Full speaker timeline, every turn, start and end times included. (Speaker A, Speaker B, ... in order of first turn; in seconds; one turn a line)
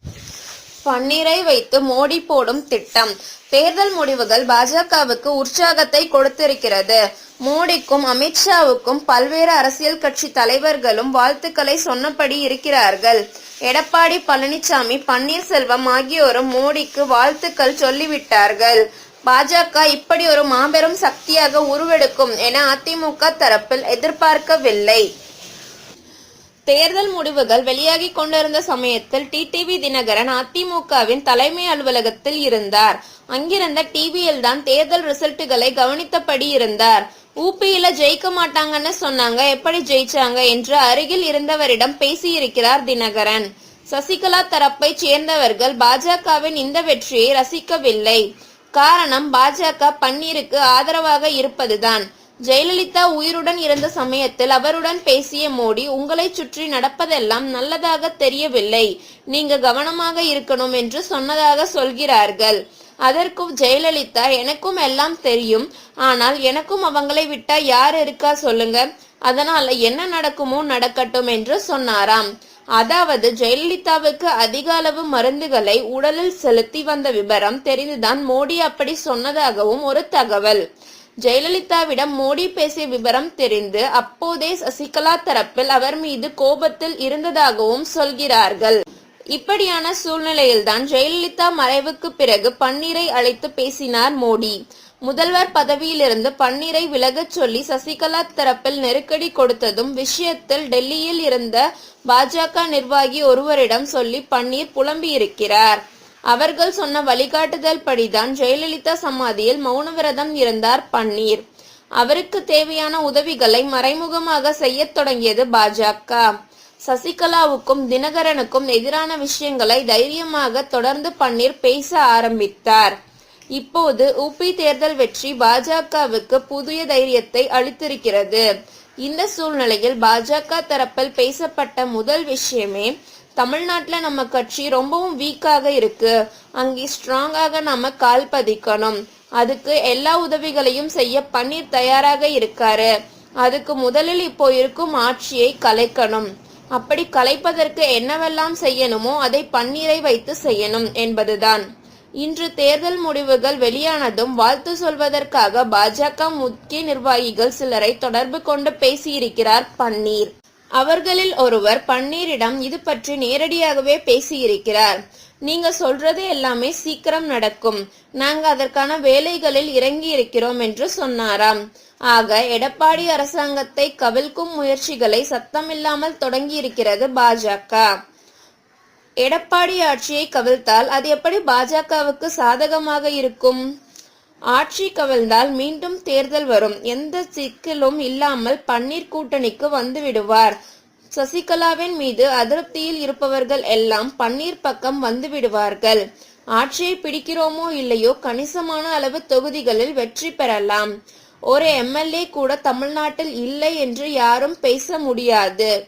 Speaker A: 0.8-25.1
Speaker A: 26.7-48.2
Speaker A: 48.8-72.3
Speaker A: 72.8-80.6
Speaker A: 81.2-88.8
Speaker A: 89.3-105.8
Speaker A: 106.3-111.4
Speaker A: 112.0-116.2
Speaker A: 116.9-122.9
Speaker A: 123.6-128.4
Speaker A: 129.0-142.9
Speaker A: 143.4-151.6
Speaker A: 152.2-171.6
Speaker A: 172.1-177.8
Speaker A: 179.2-183.6
Speaker A: 184.5-190.5
Speaker A: 191.2-196.0
Speaker A: 196.6-200.9
Speaker A: 201.5-205.7